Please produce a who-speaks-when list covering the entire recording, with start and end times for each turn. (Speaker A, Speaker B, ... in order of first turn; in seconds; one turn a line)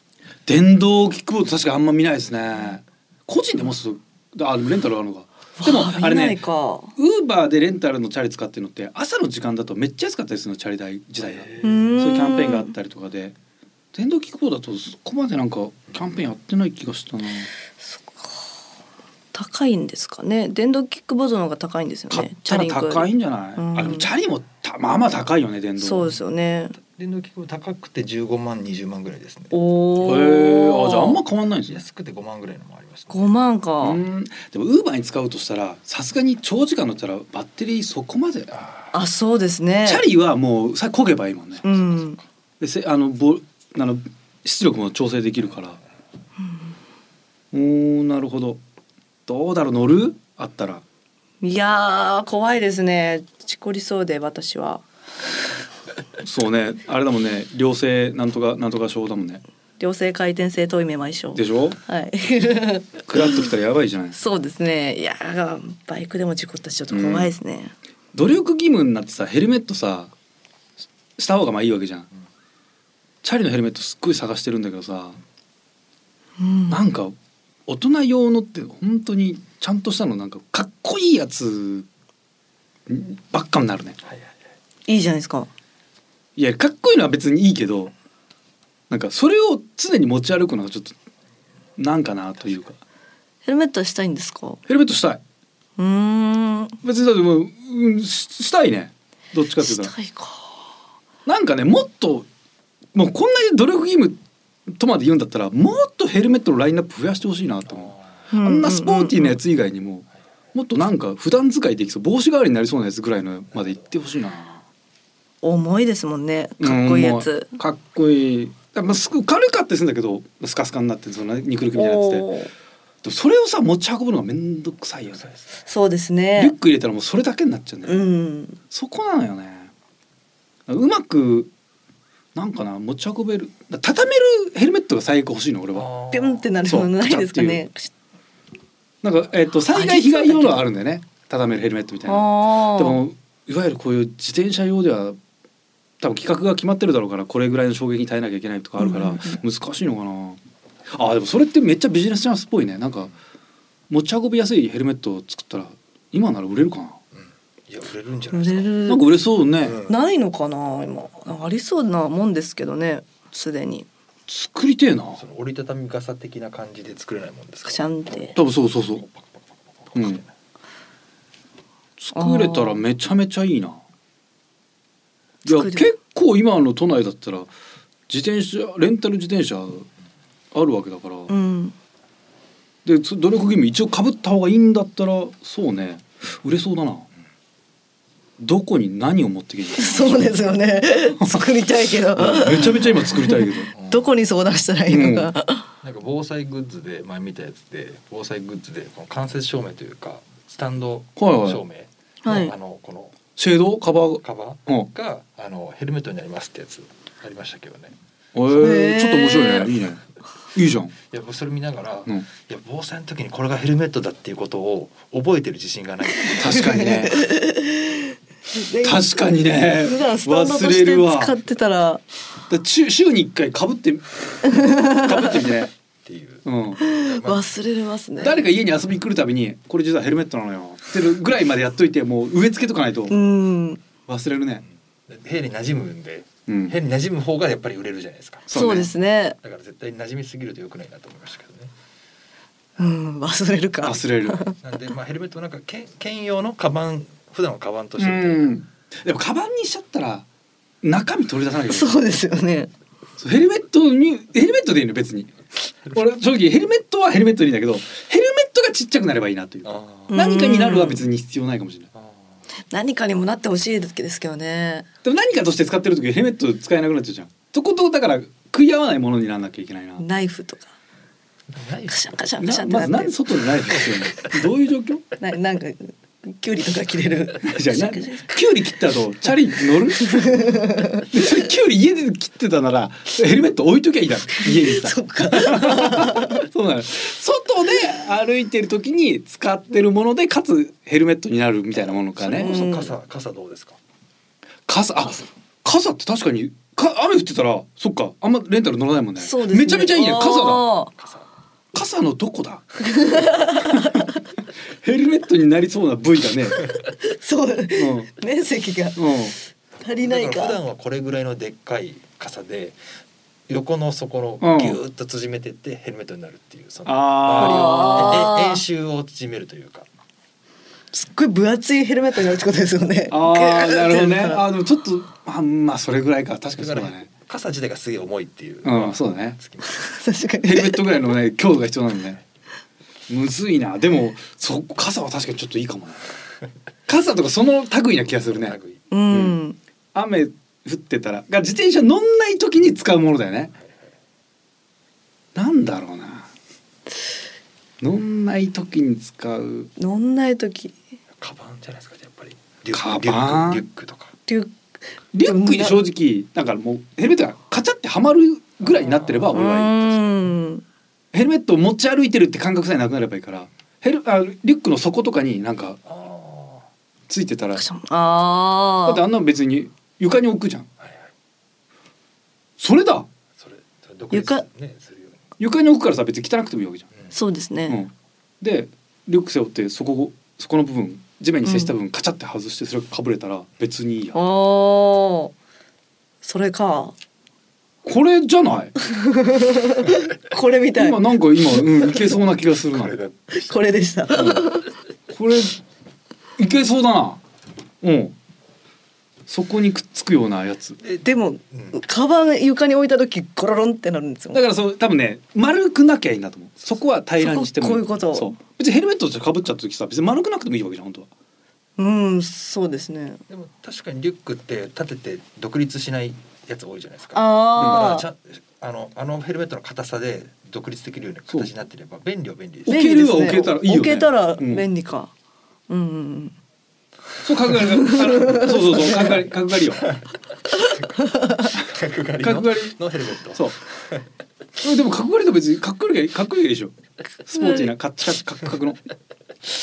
Speaker A: 0.5-6.4
Speaker B: 5.6-7.0
Speaker A: 7.0-13.3
Speaker C: 11.3-11.7
Speaker B: 11.6-12.7
Speaker A: 13.9-17.5
Speaker B: 17.8-18.4
Speaker B: 19.3-24.1
Speaker A: 22.1-26.1
Speaker B: 25.8-26.8
Speaker C: 26.8-29.5
Speaker B: 29.5-31.2
Speaker A: 30.0-31.8
Speaker C: 31.7-33.4
Speaker B: 33.1-34.0
Speaker A: 33.8-38.5
Speaker B: 38.9-40.0
Speaker A: 39.9-41.7
Speaker B: 41.6-42.2
Speaker A: 42.6-45.8
Speaker A: 47.5-48.6
Speaker A: 49.3-50.8
Speaker B: 51.4-54.8
Speaker A: 56.2-59.4
Speaker B: 59.8-63.4
Speaker A: 61.3-61.8
Speaker A: 63.1-64.2
Speaker B: 64.1-67.7
Speaker A: 66.9-67.3
Speaker A: 68.1-70.1
Speaker A: 71.2-72.1
Speaker A: 73.2-75.2
Speaker B: 76.4-76.8
Speaker A: 76.7-77.2
Speaker A: 77.7-81.9
Speaker A: 82.9-84.0
Speaker B: 84.9-85.5
Speaker A: 86.4-87.9
Speaker A: 88.9-91.0
Speaker A: 91.8-92.8
Speaker B: 93.5-94.6
Speaker A: 94.7-95.2
Speaker B: 95.8-96.8
Speaker A: 96.8-99.9
Speaker B: 99.6-100.6
Speaker A: 101.3-102.3
Speaker A: 102.9-114.6
Speaker B: 108.3-109.4
Speaker B: 115.4-117.5
Speaker A: 116.6-122.3
Speaker B: 121.8-122.5
Speaker A: 123.0-125.2
Speaker C: 125.1-125.5
Speaker B: 125.7-126.5
Speaker A: 126.4-128.0
Speaker B: 127.8-128.6
Speaker A: 128.7-129.7
Speaker A: 130.7-131.5
Speaker A: 132.3-135.9
Speaker C: 135.7-136.5
Speaker B: 136.1-137.9
Speaker A: 136.6-137.6
Speaker A: 139.0-145.2
Speaker B: 139.7-140.7
Speaker B: 142.1-143.0
Speaker A: 146.0-153.1
Speaker B: 148.8-149.4
Speaker A: 153.9-157.0
Speaker C: 157.1-158.8
Speaker B: 158.3-159.1
Speaker A: 158.8-159.8
Speaker C: 159.6-160.0
Speaker B: 159.9-163.9
Speaker A: 164.3-165.2
Speaker C: 165.2-167.9
Speaker B: 167.7-168.4
Speaker A: 168.4-169.1
Speaker C: 169.0-170.3
Speaker A: 169.9-170.2
Speaker A: 172.0-173.8
Speaker B: 172.1-172.8
Speaker B: 175.5-175.9
Speaker A: 175.5-177.5
Speaker A: 178.1-179.9
Speaker A: 180.5-181.3
Speaker B: 181.3-181.8
Speaker A: 182.8-187.1
Speaker A: 188.4-190.4
Speaker B: 189.8-195.7
Speaker A: 191.2-193.7
Speaker C: 193.8-194.1
Speaker A: 194.9-195.3
Speaker C: 195.8-203.2
Speaker A: 201.2-201.6
Speaker B: 202.2-202.5
Speaker A: 203.4-204.9
Speaker C: 204.2-207.9
Speaker A: 208.3-210.0
Speaker B: 208.5-209.7
Speaker A: 210.5-210.9
Speaker C: 211.1-216.9
Speaker B: 216.2-222.0
Speaker A: 216.3-217.3
Speaker A: 218.8-221.3
Speaker A: 222.5-225.7
Speaker B: 224.4-225.6
Speaker C: 226.1-227.5
Speaker A: 226.4-226.8
Speaker B: 226.8-228.4
Speaker A: 228.2-233.2
Speaker B: 233.1-233.8
Speaker A: 234.1-234.6
Speaker C: 235.1-238.5
Speaker A: 236.5-236.8
Speaker A: 238.5-238.9
Speaker B: 238.5-239.4
Speaker C: 239.4-241.7
Speaker B: 242.8-244.6
Speaker A: 243.8-244.4
Speaker C: 244.6-248.5
Speaker A: 248.0-250.3
Speaker A: 250.8-252.0
Speaker B: 251.7-252.7
Speaker A: 253.2-255.3
Speaker A: 255.9-261.9
Speaker C: 259.6-260.1
Speaker B: 260.1-261.1
Speaker B: 262.7-264.9
Speaker A: 265.0-270.0
Speaker B: 270.0-270.7
Speaker C: 271.5-272.1
Speaker B: 271.9-273.1
Speaker A: 272.4-275.1
Speaker C: 273.8-274.3
Speaker B: 275.2-278.3
Speaker A: 277.4-292.5
Speaker B: 280.0-281.1
Speaker B: 284.4-286.4
Speaker C: 292.2-293.8
Speaker B: 292.2-292.9
Speaker A: 294.7-300.7
Speaker B: 299.2-300.9
Speaker C: 300.9-301.3
Speaker A: 301.7-304.1
Speaker B: 302.8-304.2
Speaker A: 304.8-306.6
Speaker B: 306.9-309.2
Speaker A: 307.8-308.1
Speaker A: 309.0-309.4
Speaker B: 309.8-310.6
Speaker C: 310.0-312.8
Speaker C: 313.5-319.9
Speaker A: 314.4-314.8
Speaker A: 316.9-318.2
Speaker B: 317.4-318.6
Speaker B: 320.9-324.4
Speaker A: 323.1-327.1
Speaker C: 326.6-329.9
Speaker A: 328.6-329.4
Speaker B: 329.7-330.9
Speaker A: 330.4-332.2
Speaker A: 333.1-336.1
Speaker A: 336.9-338.6
Speaker C: 338.3-338.9
Speaker B: 338.9-339.6
Speaker A: 339.1-339.4
Speaker A: 339.9-343.5
Speaker A: 345.4-346.3
Speaker A: 347.8-349.7
Speaker B: 349.8-350.8
Speaker C: 351.2-354.1
Speaker A: 352.7-353.6
Speaker B: 354.3-354.6
Speaker A: 355.1-360.0
Speaker B: 355.2-355.8
Speaker C: 358.7-359.4
Speaker B: 359.3-360.6
Speaker A: 361.1-365.8
Speaker C: 365.8-366.7
Speaker A: 367.1-367.6
Speaker B: 367.6-369.0
Speaker A: 368.9-370.7
Speaker C: 370.8-371.1
Speaker A: 372.6-373.1
Speaker C: 373.4-375.3
Speaker B: 374.1-374.4
Speaker A: 375.4-376.9
Speaker B: 377.1-377.8
Speaker A: 377.7-384.2
Speaker B: 381.4-381.7
Speaker B: 384.1-385.3
Speaker B: 386.2-386.9
Speaker A: 387.9-388.8
Speaker B: 388.8-392.0
Speaker A: 390.7-393.0
Speaker C: 392.7-393.4
Speaker B: 393.3-394.7
Speaker A: 394.1-394.5
Speaker A: 395.1-395.6
Speaker A: 396.4-397.2
Speaker A: 397.8-398.1
Speaker A: 399.3-400.8
Speaker C: 400.8-401.8
Speaker B: 401.0-404.4
Speaker A: 404.3-411.1
Speaker B: 407.2-408.4
Speaker B: 411.8-413.2
Speaker C: 413.3-422.8
Speaker B: 417.1-418.1
Speaker A: 417.6-417.9
Speaker A: 422.7-424.7
Speaker B: 422.7-425.1
Speaker B: 425.7-426.4
Speaker A: 427.2-429.9
Speaker B: 427.6-429.2
Speaker B: 430.5-431.6
Speaker C: 430.6-434.0
Speaker A: 432.2-432.8
Speaker A: 434.6-436.7
Speaker A: 437.3-438.8
Speaker B: 437.4-437.7